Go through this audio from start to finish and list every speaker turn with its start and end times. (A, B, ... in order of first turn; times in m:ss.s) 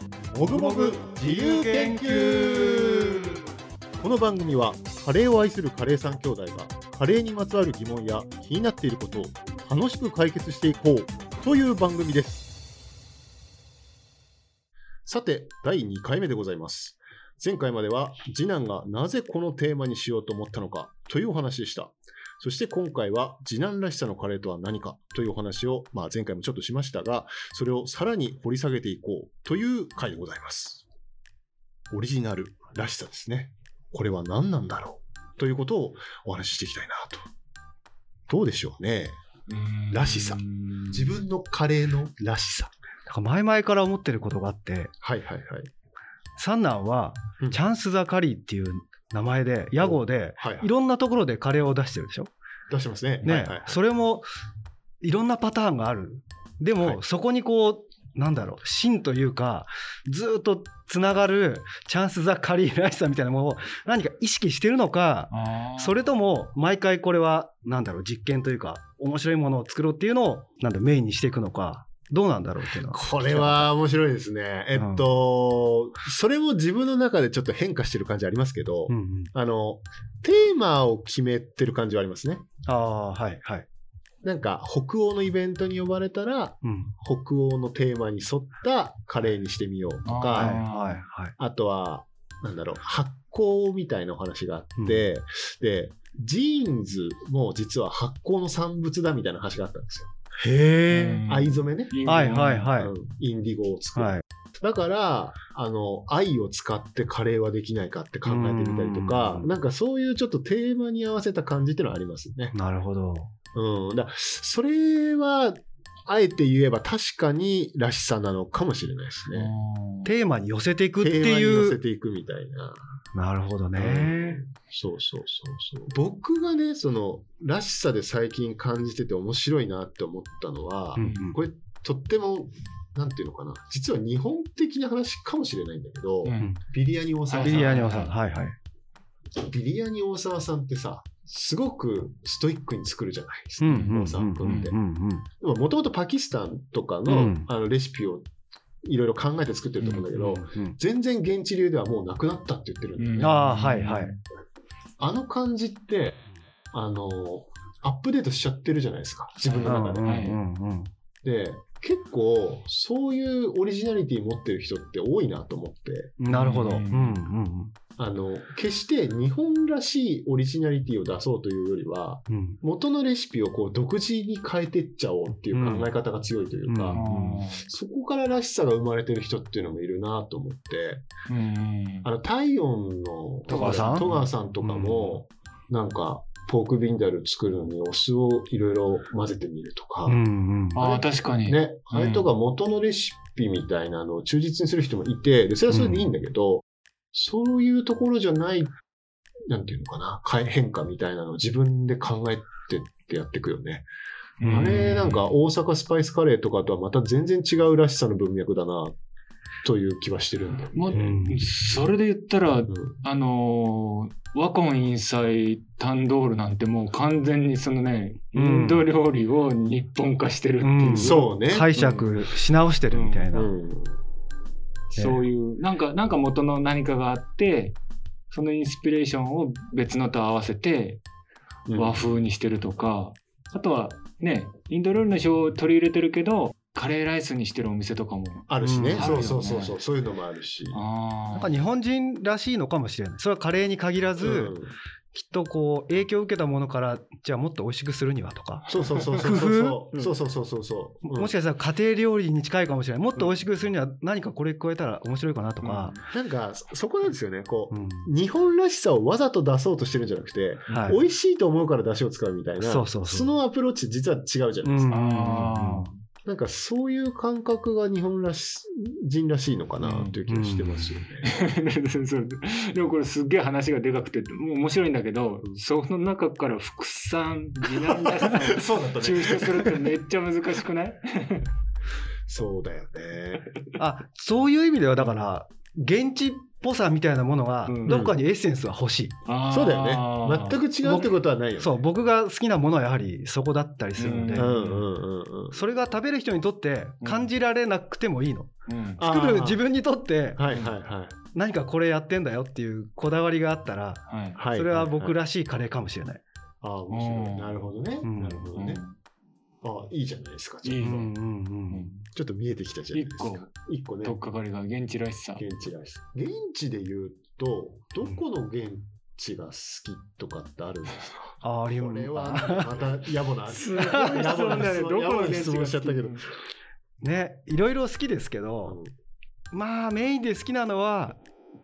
0:00.3-0:03.4 A
0:00.4-0:03.4 B
0:04.0-0:12.5 A
0:15.0-0:30.8 A
0:31.9-0:37.3 A
0:38.3-0:39.2 A
0:39.5-0:41.2 C
0:39.9-0:42.7 A
0:43.1-0:44.9 B
0:45.0-0:45.7 A
0:46.4-0:52.3 B
0:49.8-0:50.7 A
0:52.7-0:53.8 A
0:53.2-0:54.3 B
0:55.0-1:13.7 B
1:05.3-1:06.0 C
1:12.9-1:22.5 A
1:14.7-1:15.0 B
1:18.9-1:19.3 B
1:22.6-1:23.7 B
1:24.2-1:30.6 A
1:26.6-1:26.9 B
1:30.0-1:31.0 C
1:30.4-1:31.3 B
1:31.4-1:40.1 A
1:34.8-1:35.0 B
1:40.4-1:41.2 B
1:40.9-1:42.7 C
1:40.9-1:41.9 A
1:42.0-1:42.9 B
1:42.8-1:52.5 A
1:43.9-1:44.2 B
1:48.2-1:49.5 B
1:52.5-1:53.3 B
1:53.5-1:59.5 A
1:59.3-2:00.1 C
2:00.0-2:01.8 B
2:01.0-2:03.0 A
2:03.1-2:04.4 B
2:03.8-2:17.9 A
2:11.0-2:11.4 B
2:11.0-2:11.2 C
2:16.2-2:16.5 C
2:17.3-2:18.1 C
2:17.4-2:18.6 B
2:19.4-2:24.8 A
2:23.6-2:25.2 B
2:23.7-2:24.7 C
2:25.4-2:28.2 A
2:27.1-2:27.5 B
2:28.8-2:33.4 A
2:29.8-2:30.4 C
2:30.2-2:30.8 B
2:33.0-2:34.2 C
2:33.2-2:34.1 B
2:35.0-2:40.1 A
2:39.4-2:40.4 C
2:39.6-2:40.9 B
2:41.2-2:46.2 A
2:46.2-2:47.7 B
2:46.3-2:47.2 C
2:48.0-3:01.1 A
2:52.3-2:52.6 B
2:55.5-2:55.9 B
2:56.7-2:57.4 B
2:56.9-2:57.6 C
3:01.3-3:02.1 C
3:02.0-3:10.2 A
3:03.5-3:04.1 B
3:03.5-3:05.2 C
3:10.0-3:10.8 B
3:10.7-3:12.3 C
3:10.8-3:18.8 A
3:15.7-3:16.0 B
3:19.5-3:23.8 A
3:24.4-3:25.3 C
3:24.4-3:28.9 A
3:29.6-3:31.1 A
3:30.7-3:43.3 C
3:30.9-3:31.4 B
3:32.7-3:33.0 A
3:38.3-3:38.9 B
3:40.6-3:43.5 B
3:40.9-3:41.7 A
3:43.3-3:44.0 A
3:44.9-3:47.8 C
3:45.0-3:45.2 B
3:48.3-3:51.0 C
3:51.7-3:52.0 A
3:51.7-3:59.8 C
3:58.5-4:00.8 A
3:58.6-3:59.3 B
4:00.7-4:01.6 C
4:01.3-4:04.6 B
4:04.2-4:04.7 A
4:05.1-4:10.1 B
4:08.7-4:11.3 A
4:11.0-4:16.0 B
4:15.6-4:16.1 C
4:16.1-4:25.0 A
4:17.7-4:18.1 B
4:20.7-4:21.0 B
4:22.6-4:23.3 B
4:24.6-4:25.9 B
4:24.9-4:26.0 C
4:26.2-4:31.3 A
4:29.8-4:30.2 C
4:30.3-4:31.0 B
4:31.2-4:41.5 C
4:37.7-4:39.9 A
4:42.3-4:43.5 A
4:43.8-4:49.2 B
4:47.6-4:48.0 C
4:47.8-4:48.2 A
4:49.2-4:50.6 C
4:49.5-4:51.8 A
4:50.8-4:54.5 B
4:54.0-4:54.9 C
4:54.3-4:55.6 A
4:55.5-4:58.5 B
4:57.0-4:57.3 C
4:58.7-4:59.0 C
4:59.0-4:59.6 A
4:59.0-5:00.4 B
5:00.3-5:01.2 A
5:00.5-5:00.7 C
5:01.3-5:06.2 B
5:04.1-5:04.4 C
5:04.3-5:05.2 A
5:06.6-5:08.8 A
5:06.9-5:07.7 C
5:08.0-5:08.6 B
5:08.5-5:08.9 C
5:09.6-5:11.1 A
5:10.6-5:11.1 C
5:10.8-5:12.0 B
5:11.7-5:12.0 C
5:12.1-5:14.2 A
5:12.9-5:13.5 C
5:14.0-5:15.4 C
5:15.4-5:26.2 A
5:21.4-5:22.7 B
5:23.5-5:24.7 B
5:23.6-5:26.2 C
5:27.0-5:28.8 B
5:28.6-5:28.9 A
5:29.5-5:31.2 B